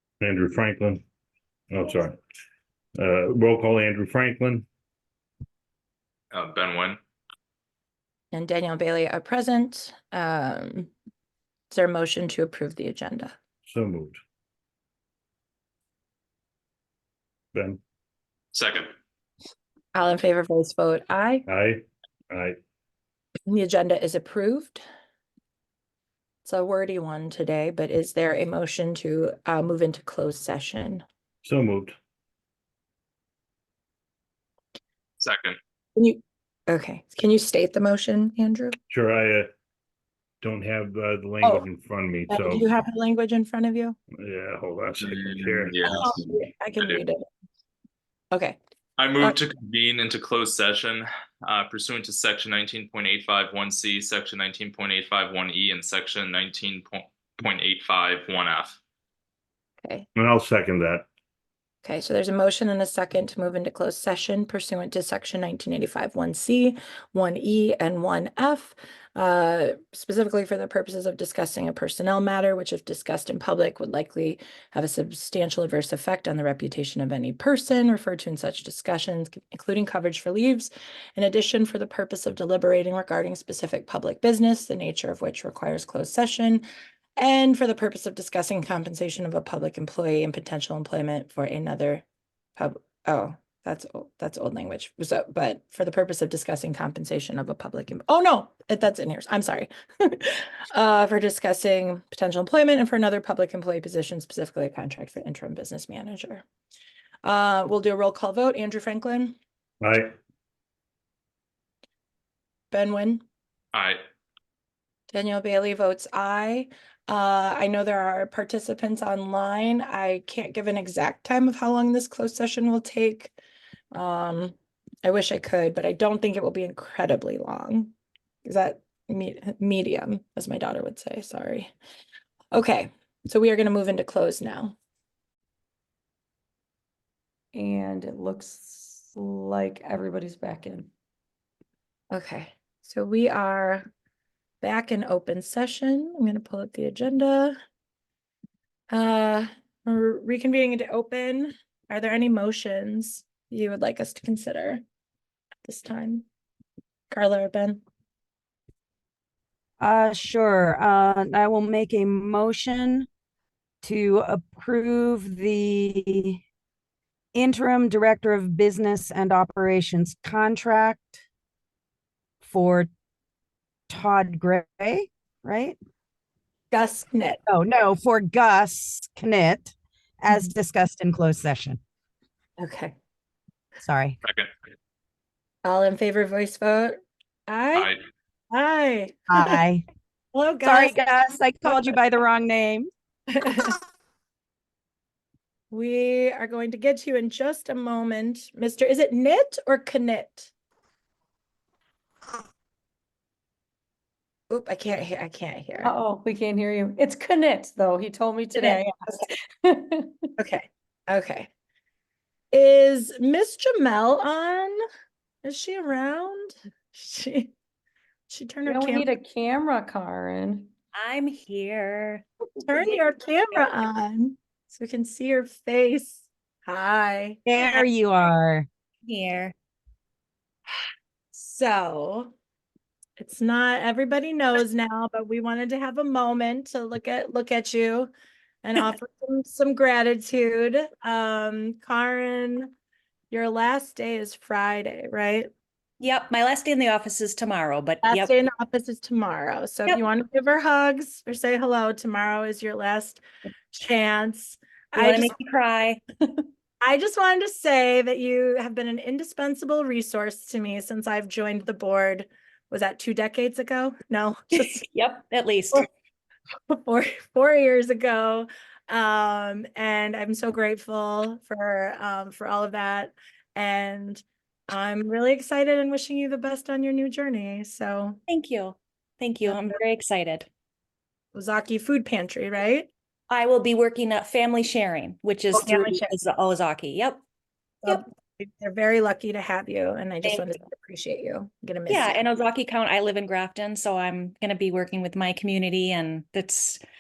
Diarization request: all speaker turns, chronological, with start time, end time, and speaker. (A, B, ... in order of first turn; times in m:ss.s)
0:00.2-0:01.0 A
0:01.7-0:02.2 A
0:03.0-0:04.6 A
0:06.3-0:07.0 B
0:08.3-0:10.9 C
0:11.7-0:13.3 C
0:13.7-0:14.2 A
0:17.5-0:17.8 A
0:18.5-0:18.9 B
0:19.9-0:21.4 C
0:21.5-0:22.6 A
0:23.5-0:24.8 C
0:26.4-0:31.0 C
0:31.4-0:32.0 A
0:35.2-0:35.6 B
0:36.0-0:38.8 C
0:38.9-0:39.5 A
0:40.4-0:42.6 A
0:42.3-0:44.0 C
0:44.2-0:45.8 A
0:45.0-0:47.0 B
0:45.9-0:47.2 C
0:48.3-0:48.6 C
0:49.0-0:58.8 B
1:00.2-1:01.0 A
1:01.8-1:26.6 C
1:27.2-1:32.0 C
1:32.6-1:46.4 C
1:47.2-1:49.4 C
1:49.8-1:50.1 A
1:52.7-1:53.2 C
1:53.7-1:54.0 B
1:55.1-2:03.3 C
2:03.9-2:07.9 C
2:08.4-2:11.7 C
2:12.5-2:14.8 C
2:17.5-2:20.9 D
2:22.1-2:23.9 C
2:24.6-2:27.6 C
2:28.9-2:34.8 C
2:35.6-2:36.2 C
2:37.1-2:37.8 C
2:39.8-2:43.1 E
2:43.8-2:46.4 E
2:47.3-2:51.2 E
2:52.4-2:52.9 E
2:53.9-2:55.8 E
2:56.7-2:57.4 C
2:57.5-3:01.8 E
3:02.6-3:02.9 C
3:03.8-3:04.2 E
3:04.2-3:04.5 B
3:05.6-3:07.9 C
3:07.7-3:08.0 B
3:08.5-3:09.6 C
3:09.3-3:09.8 E
3:10.3-3:11.0 C
3:10.6-3:12.9 E
3:13.3-3:13.8 C
3:15.7-3:20.5 C
3:24.5-3:25.9 C
3:25.8-3:30.2 D
3:28.5-3:28.8 C
3:30.4-3:31.5 C
3:32.5-3:34.8 C
3:35.4-3:37.5 C
3:38.3-3:39.1 C
3:38.6-3:40.7 D
3:40.9-3:42.2 F
3:42.6-3:47.4 C
3:47.4-3:48.7 E
3:49.0-3:49.5 F
3:51.3-3:52.3 C
3:53.2-3:58.1 C
3:58.6-4:02.7 C
4:03.3-4:05.5 C
4:06.0-4:08.3 F
4:08.0-4:15.3 C
4:15.0-4:16.0 F
4:16.8-4:24.8 C
4:24.8-4:25.8 F
4:26.7-4:38.2 C
4:38.3-4:40.5 F
4:41.3-4:42.9 C
4:43.3-4:47.2 F
4:45.5-4:46.1 C
4:47.8-4:52.2 C
4:50.2-4:50.5 F
4:51.9-4:56.8 F